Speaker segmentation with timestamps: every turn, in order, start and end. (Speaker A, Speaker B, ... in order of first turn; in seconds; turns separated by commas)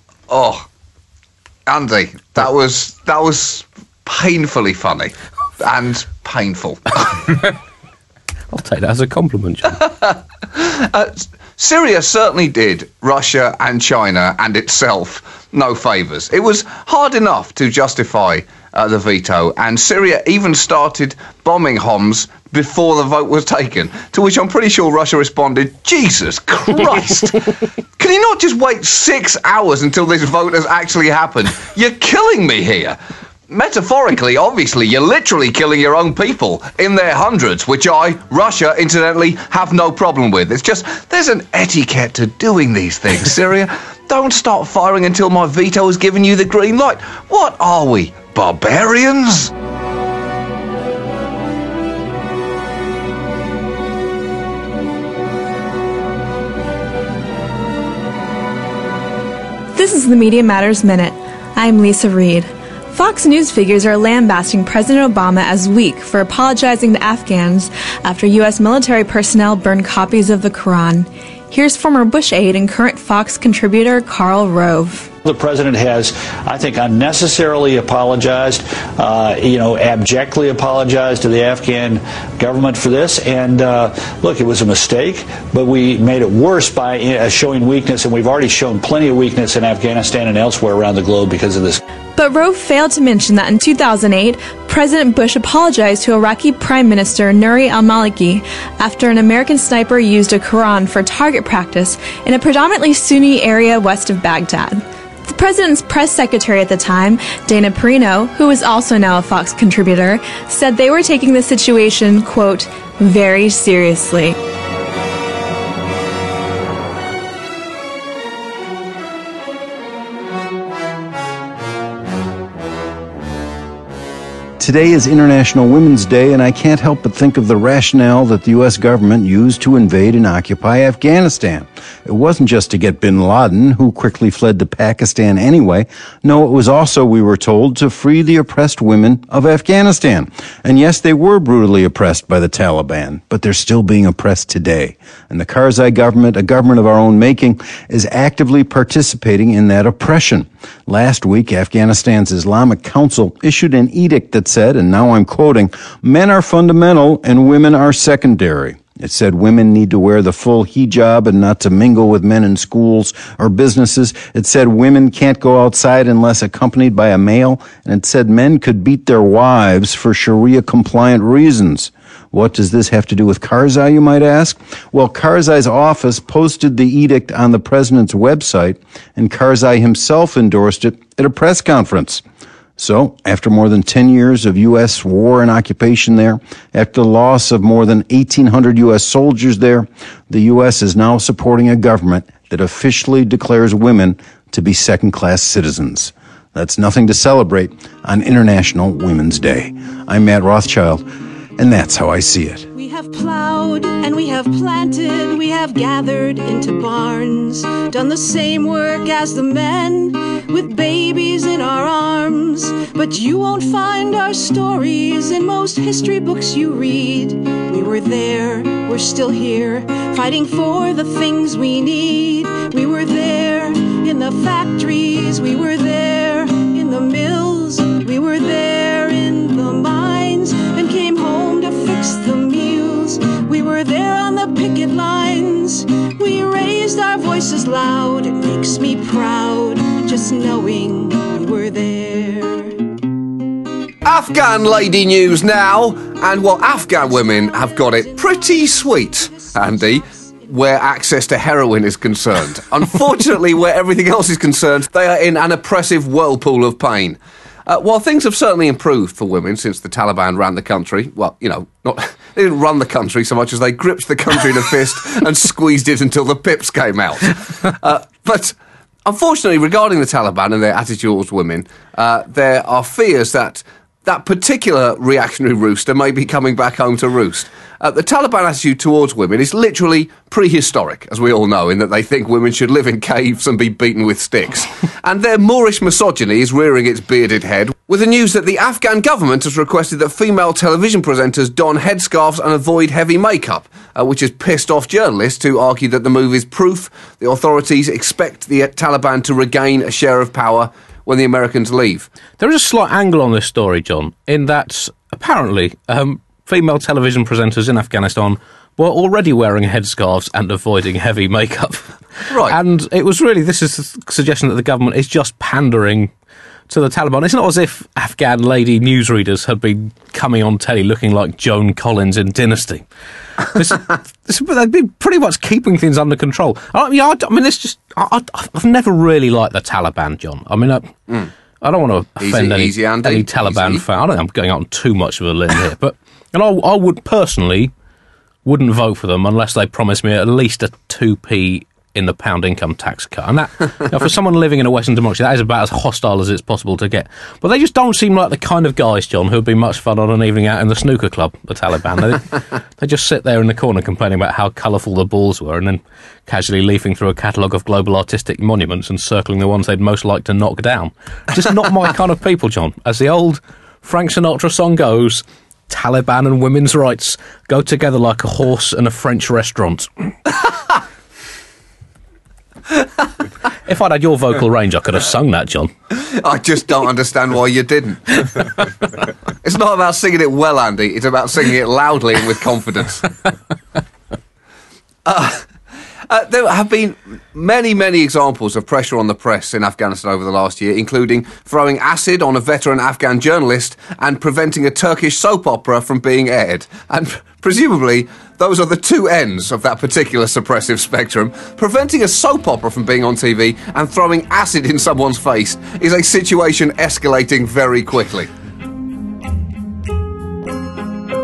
Speaker A: 0.3-0.7, Speaker A: 1.7-6.8, Speaker B: 8.5-9.8, Speaker A: 10.6-27.4, Speaker A: 28.0-33.0, Speaker A: 33.5-49.5, Speaker C: 59.8-75.1, Speaker D: 75.2-91.8, Speaker C: 92.2-114.4, Speaker E: 124.6-182.2, Speaker E: 182.8-201.0, Speaker E: 201.6-202.7, Speaker F: 202.7-242.9, Speaker A: 244.1-302.1, Speaker F: 246.3-250.8, Speaker B: 302.4-316.1, Speaker A: 312.3-312.6, Speaker B: 316.7-322.9, Speaker B: 323.4-330.9, Speaker B: 331.6-337.7, Speaker A: 332.2-333.8, Speaker B: 338.4-369.9, Speaker B: 373.7-375.7, Speaker A: 376.1-378.2, Speaker A: 379.4-383.1, Speaker A: 385.1-385.5, Speaker A: 386.1-408.3